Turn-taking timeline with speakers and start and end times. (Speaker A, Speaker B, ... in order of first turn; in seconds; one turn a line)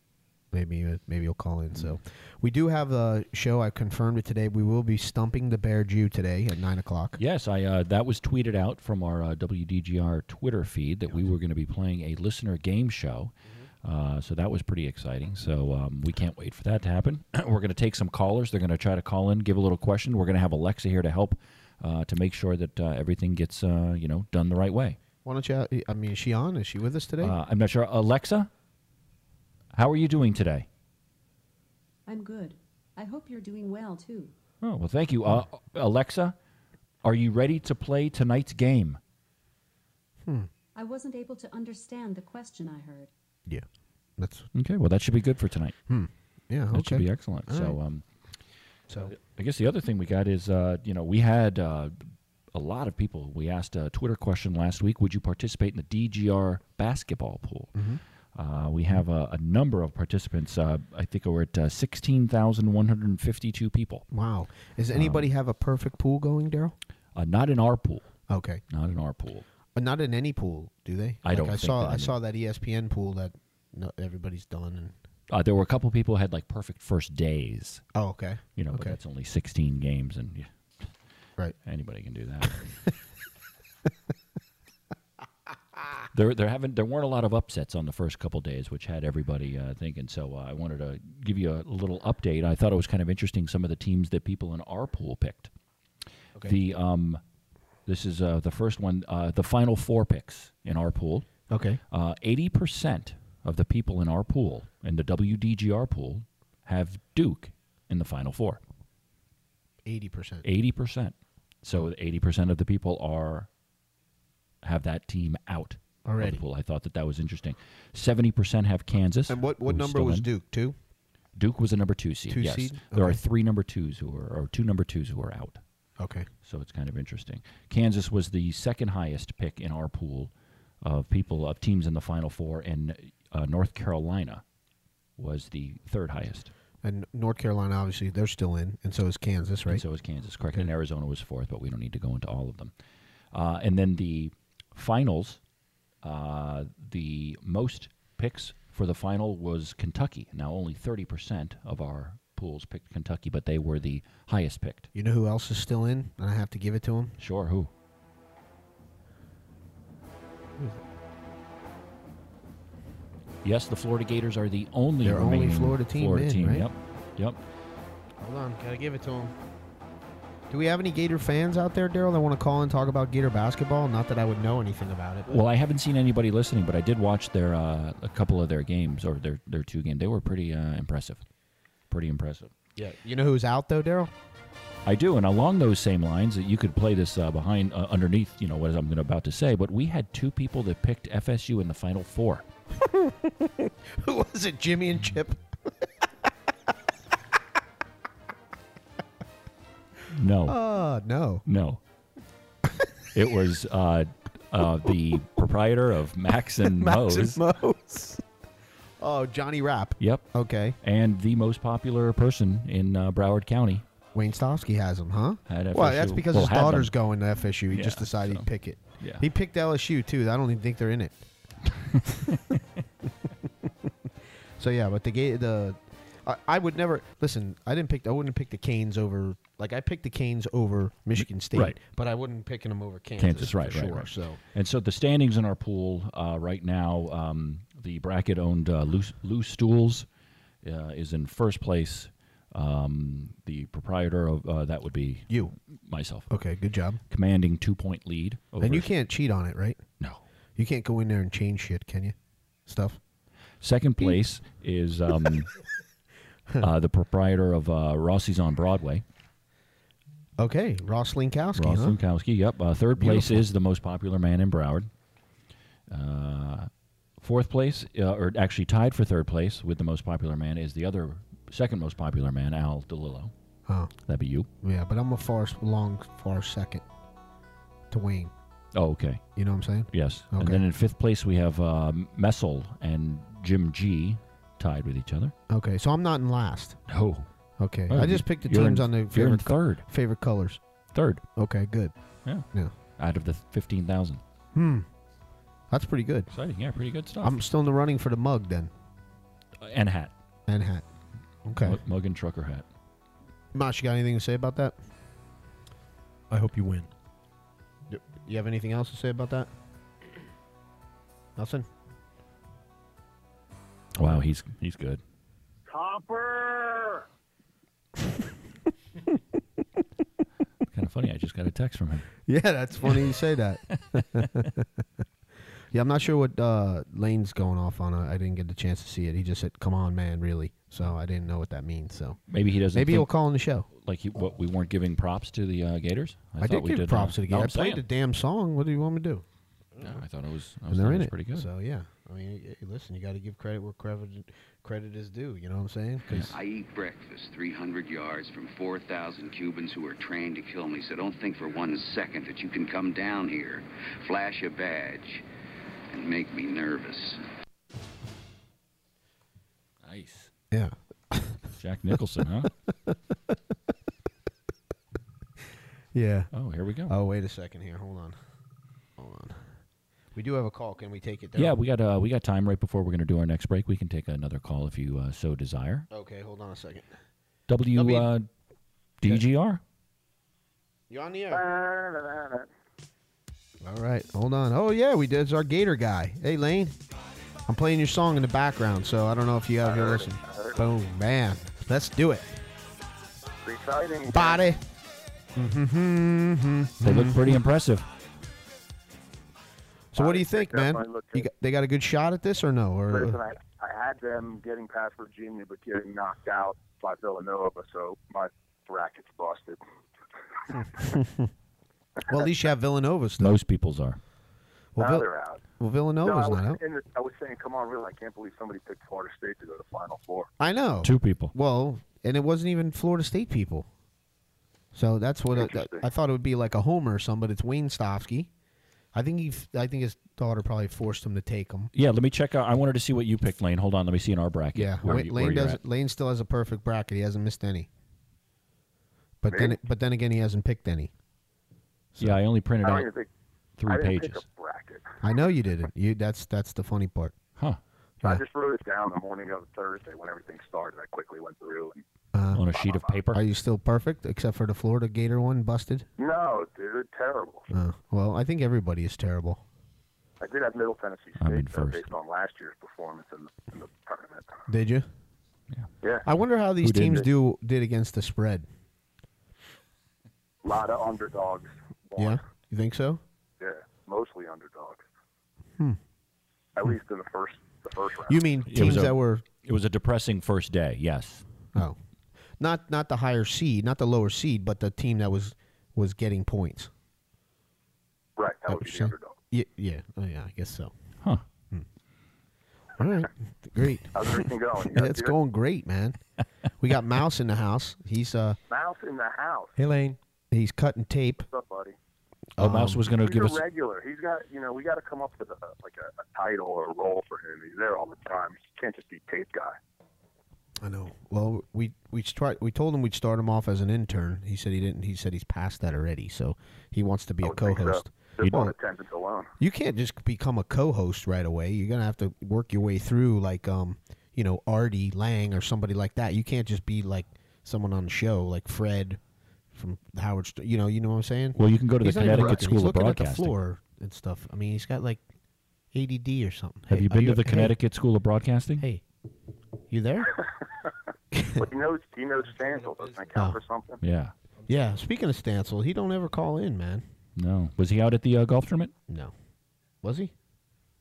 Speaker A: 0.5-7.2
Speaker B: 7.2-13.3
Speaker B: 13.8-25.0
Speaker A: 25.2-27.4
Speaker B: 27.2-28.5
Speaker B: 29.7-30.7
Speaker C: 32.1-34.3
Speaker B: 34.6-36.4
Speaker B: 37.0-39.0
Speaker A: 40.2-40.5
Speaker C: 40.8-43.1
Speaker A: 44.2-44.5
Speaker B: 44.5-45.7
Speaker A: 45.9-47.8
Speaker B: 46.7-48.0
Speaker B: 49.0-57.7
Speaker A: 57.7-58.0
Speaker B: 58.3-64.0
Speaker A: 64.1-66.8
Speaker B: 64.9-65.3
Speaker B: 67.1-68.0
Speaker A: 68.3-68.6
Speaker B: 68.7-69.4
Speaker A: 69.7-74.9
Speaker B: 71.2-72.2
Speaker B: 75.3-77.8
Speaker A: 77.9-79.0
Speaker B: 78.6-80.5
Speaker B: 81.6-82.5
Speaker A: 82.4-82.9
Speaker B: 86.1-95.5
Speaker B: 96.4-97.2
Speaker B: 97.9-101.3
Speaker A: 101.5-101.8
Speaker B: 101.9-108.6
Speaker A: 109.8-110.5
Speaker B: 110.4-113.5
Speaker B: 114.6-120.3
Speaker A: 116.0-116.4
Speaker A: 119.3-120.8
Speaker B: 121.4-125.6
Speaker A: 122.3-123.2
Speaker A: 126.0-126.3
Speaker B: 126.5-130.3
Speaker B: 130.8-134.4
Speaker B: 135.2-136.5
Speaker A: 136.8-139.8
Speaker B: 139.7-142.7
Speaker B: 143.3-145.4
Speaker B: 146.0-154.9
Speaker A: 154.9-157.2
Speaker B: 157.2-157.7
Speaker B: 163.4-167.4
Speaker A: 165.0-166.7
Speaker A: 168.2-169.3
Speaker A: 170.5-175.4
Speaker B: 175.3-181.2
Speaker B: 181.9-182.5
Speaker A: 182.8-184.1
Speaker B: 184.8-192.4
Speaker A: 192.7-195.4
Speaker B: 200.1-200.6
Speaker A: 200.4-201.4
Speaker B: 201.4-201.8
Speaker B: 203.1-207.4
Speaker A: 206.6-208.2
Speaker A: 209.0-210.8
Speaker B: 210.0-210.2
Speaker B: 210.8-213.8
Speaker A: 214.1-221.2
Speaker B: 215.5-216.9
Speaker B: 217.7-218.5
Speaker B: 219.0-219.3
Speaker B: 221.9-222.4
Speaker A: 224.6-234.4
Speaker B: 231.2-231.8
Speaker B: 233.2-240.1
Speaker B: 240.6-246.3
Speaker A: 245.3-245.5
Speaker A: 246.3-247.0
Speaker B: 247.1-248.9
Speaker A: 248.6-249.8
Speaker A: 250.6-252.1
Speaker A: 252.7-253.0
Speaker B: 253.6-255.5
Speaker B: 256.6-259.0
Speaker A: 260.4-262.0
Speaker B: 261.6-264.9
Speaker A: 262.9-263.5
Speaker B: 265.9-266.7
Speaker B: 267.2-273.3
Speaker B: 274.1-274.5
Speaker A: 274.6-276.8
Speaker A: 277.9-278.3
Speaker B: 278.7-279.2
Speaker A: 279.4-280.6
Speaker B: 279.9-285.3
Speaker A: 285.5-286.8
Speaker B: 286.9-287.2
Speaker A: 287.6-290.6
Speaker B: 287.9-289.8
Speaker B: 290.9-291.2
Speaker A: 291.4-291.9
Speaker A: 292.5-292.7
Speaker B: 293.0-294.2
Speaker A: 294.5-294.9
Speaker A: 295.7-296.3
Speaker B: 296.3-297.4
Speaker A: 297.2-298.7
Speaker B: 299.6-300.1
Speaker A: 300.5-300.9
Speaker A: 301.4-301.8
Speaker B: 301.6-302.6
Speaker A: 303.5-304.8
Speaker D: 306.3-306.9
Speaker A: 307.9-309.5
Speaker A: 311.4-311.7
Speaker B: 314.0-315.0
Speaker E: 315.7-317.0
Speaker B: 320.7-322.1
Speaker A: 322.3-324.6
Speaker B: 323.7-324.5
Speaker A: 325.7-333.7
Speaker B: 332.3-333.1
Speaker B: 333.7-337.8
Speaker A: 336.4-339.2
Speaker B: 339.8-341.5
Speaker A: 340.7-346.3
Speaker F: 346.3-355.2
Speaker F: 355.9-357.2
Speaker B: 359.8-360.3
Speaker A: 360.5-361.4
Speaker B: 361.6-362.5
Speaker A: 362.9-363.3
Speaker A: 365.9-366.3
Speaker B: 366.3-366.9
Speaker A: 366.9-368.1
Speaker A: 369.0-369.4
Speaker A: 370.1-371.6
Speaker B: 371.4-375.9
Speaker A: 375.9-376.9
Speaker B: 377.5-378.3
Speaker A: 377.7-378.1
Speaker B: 379.0-379.6
Speaker A: 380.9-381.4
Speaker E: 381.3-382.5
Speaker A: 383.6-386.8
Speaker A: 387.5-392.4
Speaker E: 389.6-390.6
Speaker E: 393.4-394.5
Speaker A: 394.1-394.6
Speaker A: 395.4-397.4
Speaker B: 396.8-397.9
Speaker A: 399.9-403.2
Speaker E: 399.9-401.3
Speaker E: 402.9-409.6
Speaker E: 410.5-410.9
Speaker A: 410.5-411.3
Speaker A: 412.1-413.4
Speaker B: 413.2-414.0
Speaker A: 414.7-415.1
Speaker E: 414.8-415.4
Speaker A: 415.6-416.6
Speaker E: 416.0-420.3
Speaker A: 420.4-423.7
Speaker B: 420.8-421.3
Speaker A: 424.7-428.3
Speaker E: 425.3-425.8
Speaker A: 428.9-431.7
Speaker B: 431.7-435.6
Speaker A: 434.5-437.7
Speaker A: 439.2-440.9
Speaker E: 439.3-439.6
Speaker A: 441.9-442.2
Speaker B: 442.0-442.9
Speaker E: 442.6-443.1
Speaker B: 443.6-444.2
Speaker E: 443.6-444.9
Speaker A: 445.0-447.1
Speaker E: 448.0-451.8
Speaker A: 452.1-452.5
Speaker B: 452.3-453.2
Speaker E: 452.4-453.0
Speaker A: 453.1-455.9
Speaker E: 456.0-457.5
Speaker A: 457.5-459.4
Speaker E: 460.2-464.4
Speaker B: 461.2-461.9
Speaker A: 464.5-464.9
Speaker E: 465.8-466.1
Speaker A: 466.0-468.5
Speaker B: 466.6-467.1
Speaker E: 470.4-472.2
Speaker A: 472.0-473.0
Speaker E: 473.4-474.8
Speaker E: 476.6-478.2
Speaker A: 478.1-479.2
Speaker B: 478.5-481.2
Speaker A: 482.4-486.7
Speaker E: 488.2-489.1
Speaker A: 488.5-490.7
Speaker A: 492.8-496.0
Speaker E: 493.9-495.1
Speaker A: 496.6-498.4
Speaker E: 498.5-499.6
Speaker D: 499.6-500.0
Speaker A: 500.3-501.2
Speaker E: 501.2-501.7
Speaker A: 502.4-502.9
Speaker B: 502.4-503.4
Speaker E: 502.9-509.6
Speaker A: 510.6-518.5
Speaker E: 517.2-519.3
Speaker A: 519.4-529.0
Speaker A: 529.5-535.0
Speaker B: 531.4-533.3
Speaker A: 535.7-537.6
Speaker B: 536.7-538.6
Speaker A: 538.6-538.8
Speaker A: 539.7-540.2
Speaker A: 541.1-541.5
Speaker E: 541.3-543.8
Speaker D: 542.6-543.0
Speaker A: 543.1-543.4
Speaker B: 543.8-544.1
Speaker D: 544.4-544.7
Speaker A: 544.5-546.8
Speaker B: 547.2-548.7
Speaker A: 548.9-549.1
Speaker A: 549.8-550.1